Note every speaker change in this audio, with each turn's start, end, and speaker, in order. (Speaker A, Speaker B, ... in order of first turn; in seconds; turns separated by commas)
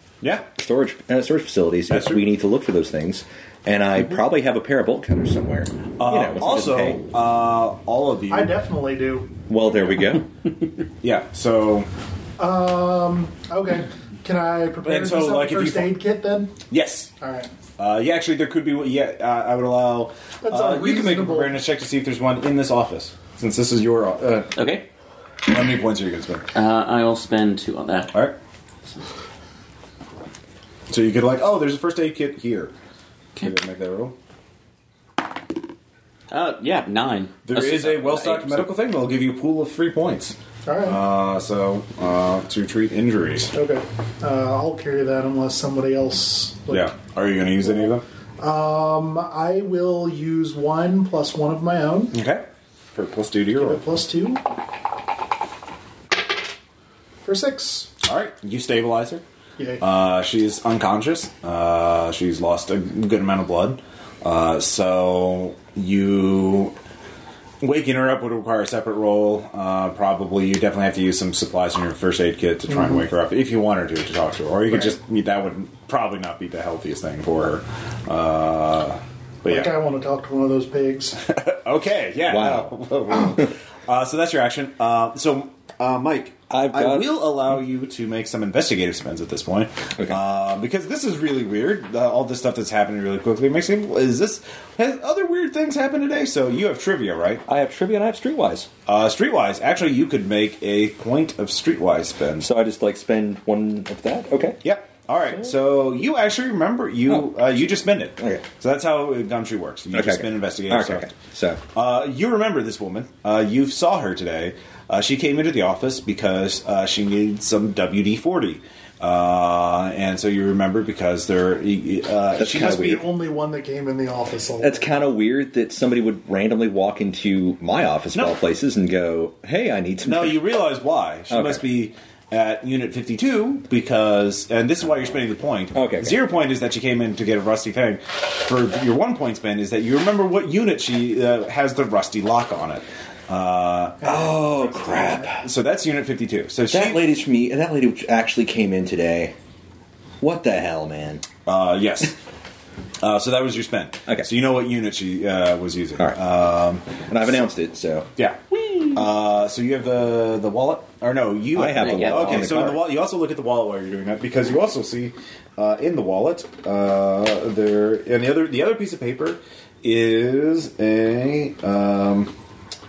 Speaker A: 0.2-0.5, Speaker B: 0.6-7.0, Speaker A: 1.9-2.2, Speaker A: 6.0-8.5, Speaker C: 8.3-9.3, Speaker B: 9.5-10.3, Speaker A: 11.0-11.9, Speaker C: 12.4-16.5, Speaker A: 14.8-15.9, Speaker A: 16.7-17.1, Speaker C: 17.2-17.5, Speaker A: 17.8-24.5, Speaker C: 20.4-21.6, Speaker D: 24.6-24.9, Speaker A: 25.4-26.4, Speaker D: 26.5-28.1, Speaker A: 30.9-32.7, Speaker A: 33.4-34.1, Speaker D: 36.3-38.8, Speaker A: 37.5-43.5, Speaker C: 40.6-41.0, Speaker C: 43.5-46.9, Speaker A: 46.7-48.0, Speaker C: 48.4-52.1, Speaker A: 52.1-53.8, Speaker C: 53.6-54.4, Speaker C: 57.2-57.9, Speaker A: 58.0-59.2, Speaker C: 59.6-59.8, Speaker A: 59.8-66.7, Speaker A: 67.6-79.8, Speaker C: 79.4-81.2, Speaker A: 81.2-97.4, Speaker B: 82.3-83.5, Speaker B: 86.5-87.2, Speaker B: 97.5-98.7, Speaker A: 98.8-102.5, Speaker B: 102.4-104.6, Speaker A: 104.6-111.1, Speaker B: 108.2-108.4, Speaker B: 109.9-111.6, Speaker A: 111.7-123.0, Speaker B: 122.4-123.0, Speaker C: 122.5-124.9, Speaker B: 124.6-130.4, Speaker A: 128.1-128.4, Speaker A: 130.0-144.2, Speaker B: 131.3-131.6, Speaker B: 135.7-136.1, Speaker B: 144.0-145.4, Speaker C: 144.8-145.1, Speaker A: 145.3-147.0, Speaker B: 146.7-149.3, Speaker B: 150.2-151.2, Speaker A: 151.4-152.1, Speaker A: 153.0-157.0, Speaker B: 157.1-158.1, Speaker A: 158.9-172.3, Speaker B: 161.5-162.9, Speaker D: 161.8-162.7